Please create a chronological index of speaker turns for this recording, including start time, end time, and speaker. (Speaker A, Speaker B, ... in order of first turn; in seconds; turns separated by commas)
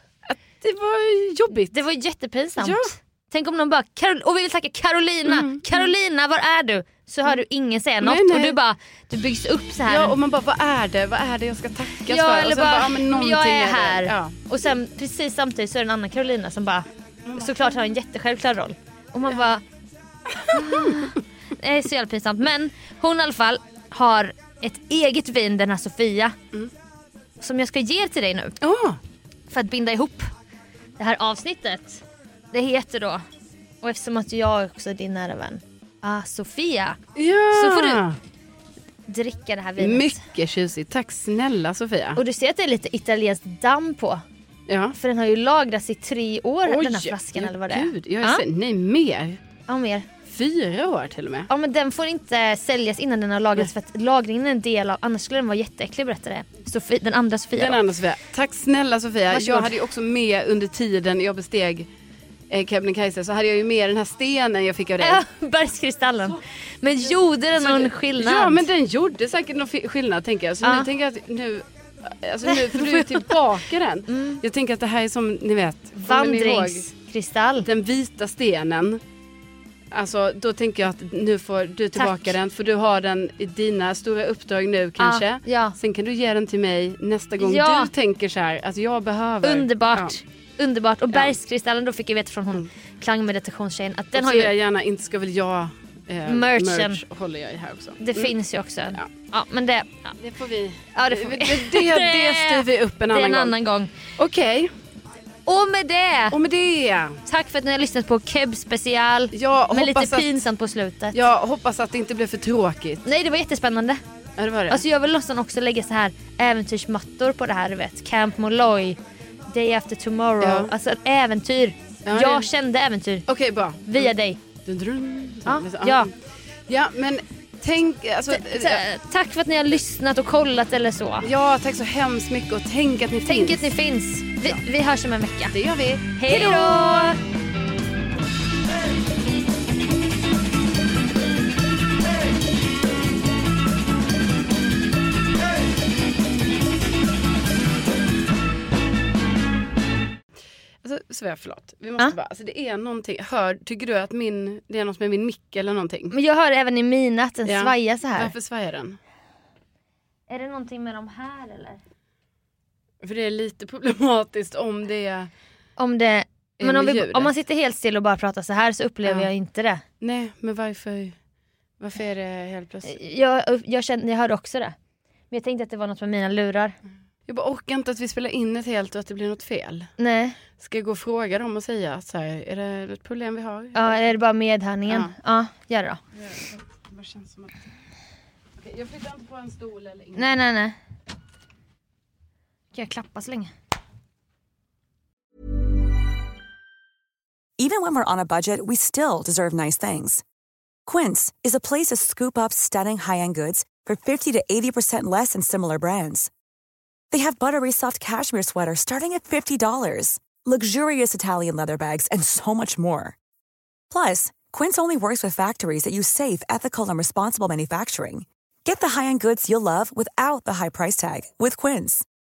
Speaker A: 0.2-1.8, Speaker B: 1.7-10.2, Speaker A: 2.6-2.9, Speaker A: 5.2-5.9, Speaker A: 8.0-8.6, Speaker A: 9.9-14.3, Speaker B: 12.1-16.9, Speaker A: 17.2-17.9, Speaker B: 17.4-19.6, Speaker A: 20.3-21.0, Speaker B: 20.5-26.4, Speaker B: 27.4-28.6, Speaker A: 28.6-29.0, Speaker B: 29.5-30.3, Speaker B: 31.0-33.2, Speaker B: 33.8-37.0, Speaker A: 37.1-38.1, Speaker B: 37.5-38.0, Speaker B: 39.1-40.2, Speaker A: 39.8-42.2, Speaker B: 42.1-44.2, Speaker A: 44.7-44.9, Speaker B: 44.9-48.4, Speaker A: 46.6-49.4, Speaker B: 49.7-50.1, Speaker A: 50.2-51.5, Speaker B: 51.5-57.8, Speaker A: 57.5-61.9, Speaker B: 59.3-59.7, Speaker A: 62.5-65.2, Speaker B: 65.0-68.7, Speaker A: 67.5-76.8, Speaker B: 72.5-73.2, Speaker B: 74.1-74.4, Speaker B: 76.0-77.7, Speaker A: 77.6-79.0, Speaker A: 79.9-90.2, Speaker B: 82.0-82.3, Speaker B: 85.0-85.7, Speaker B: 87.4-87.9, Speaker B: 89.4-94.5, Speaker A: 94.1-98.3, Speaker B: 96.3-97.0, Speaker B: 98.0-100.1, Speaker A: 100.2-103.5, Speaker B: 100.9-103.9, Speaker A: 104.2-104.7, Speaker B: 105.5-106.4, Speaker A: 106.3-107.2, Speaker B: 107.2-111.2, Speaker A: 109.3-110.5, Speaker A: 111.1-113.0, Speaker B: 113.0-114.0, Speaker A: 114.4-114.8, Speaker B: 114.7-119.0, Speaker B: 119.5-123.3, Speaker A: 120.4-120.7, Speaker A: 122.0-122.5, Speaker A: 123.3-124.1, Speaker B: 123.9-124.4, Speaker A: 124.6-126.1, Speaker B: 125.5-126.1, Speaker A: 126.7-128.8, Speaker B: 128.3-131.3, Speaker A: 131.2-133.7, Speaker B: 133.3-135.5, Speaker A: 135.5-137.1, Speaker B: 136.1-137.2, Speaker A: 150.8-156.1, Speaker B: 156.1-158.3, Speaker A: 157.5-159.0, Speaker B: 160.3-161.8, Speaker A: 163.0-165.3, Speaker B: 165.8-169.8, Speaker A: 166.6-167.3, Speaker A: 170.0-171.1, Speaker A: 171.8-172.9, Speaker B: 172.8-174.7, Speaker B: 175.3-176.7, Speaker A: 177.3-179.9, Speaker B: 180.0-180.4, Speaker A: 180.6-184.1, Speaker B: 183.7-186.0, Speaker A: 184.9-185.1, Speaker A: 186.2-187.6, Speaker A: 188.6-190.3, Speaker B: 190.2-190.8, Speaker B: 192.7-193.5, Speaker C: 197.6-200.2, Speaker C: 200.8-206.3, Speaker C: 207.1-213.2, Speaker C: 213.9-222.0